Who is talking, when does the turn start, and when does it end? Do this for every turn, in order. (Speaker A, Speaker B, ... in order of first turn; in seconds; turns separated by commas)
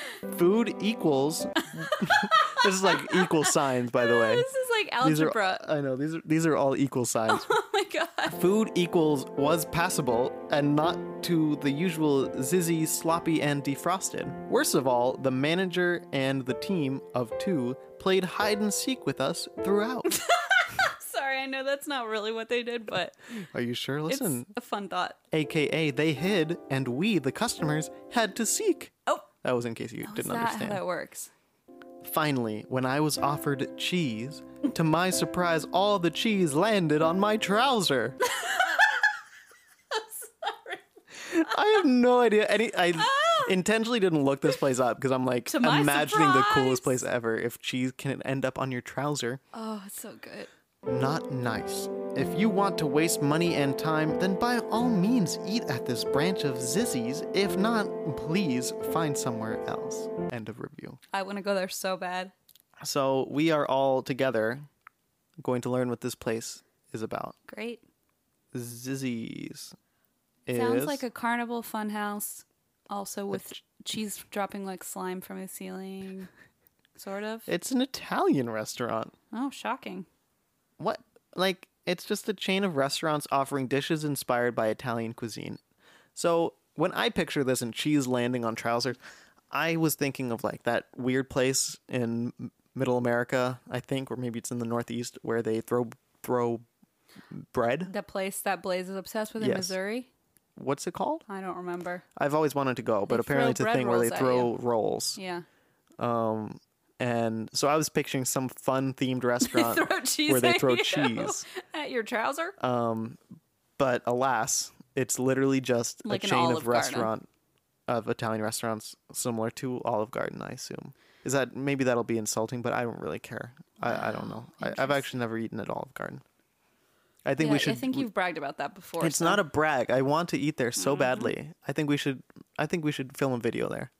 Speaker A: 0.3-4.5, Speaker B: 2.0-5.6, Speaker A: 5.0-7.5, Speaker B: 7.3-8.4, Speaker A: 8.3-20.2, Speaker B: 20.1-23.2, Speaker A: 23.4-24.5, Speaker B: 24.1-25.2, Speaker A: 25.3-30.8, Speaker B: 30.0-31.3, Speaker A: 32.0-38.2, Speaker B: 38.2-39.1, Speaker B: 39.9-40.8, Speaker A: 41.2-49.4, Speaker B: 43.0-43.5, Speaker B: 45.5-47.0, Speaker B: 49.5-50.5, Speaker A: 50.9-61.0, Speaker B: 61.1-62.3, Speaker A: 62.8-64.7, Speaker A: 65.4-67.3, Speaker B: 67.5-67.8, Speaker A: 68.5-69.7, Speaker A: 70.5-71.0, Speaker B: 70.5-76.3, Speaker B: 77.0-77.5, Speaker A: 77.5-79.1, Speaker B: 79.3-80.1, Speaker A: 80.8-85.6, Speaker A: 86.1-89.0, Speaker A: 89.5-96.6, Speaker A: 97.3-97.9, Speaker B: 97.8-100.1, Speaker A: 99.4-99.8, Speaker A: 100.5-101.2, Speaker B: 101.3-102.0, Speaker A: 102.2-105.2, Speaker B: 103.1-104.5, Speaker B: 105.2-105.4, Speaker A: 106.0-111.4, Speaker B: 109.4-112.5, Speaker A: 112.6-113.2, Speaker A: 113.8-117.3, Speaker B: 116.0-117.1, Speaker A: 117.9-126.2, Speaker B: 123.8-125.0, Speaker A: 127.2-128.1, Speaker B: 127.4-129.4, Speaker A: 129.0-133.9, Speaker B: 130.8-131.3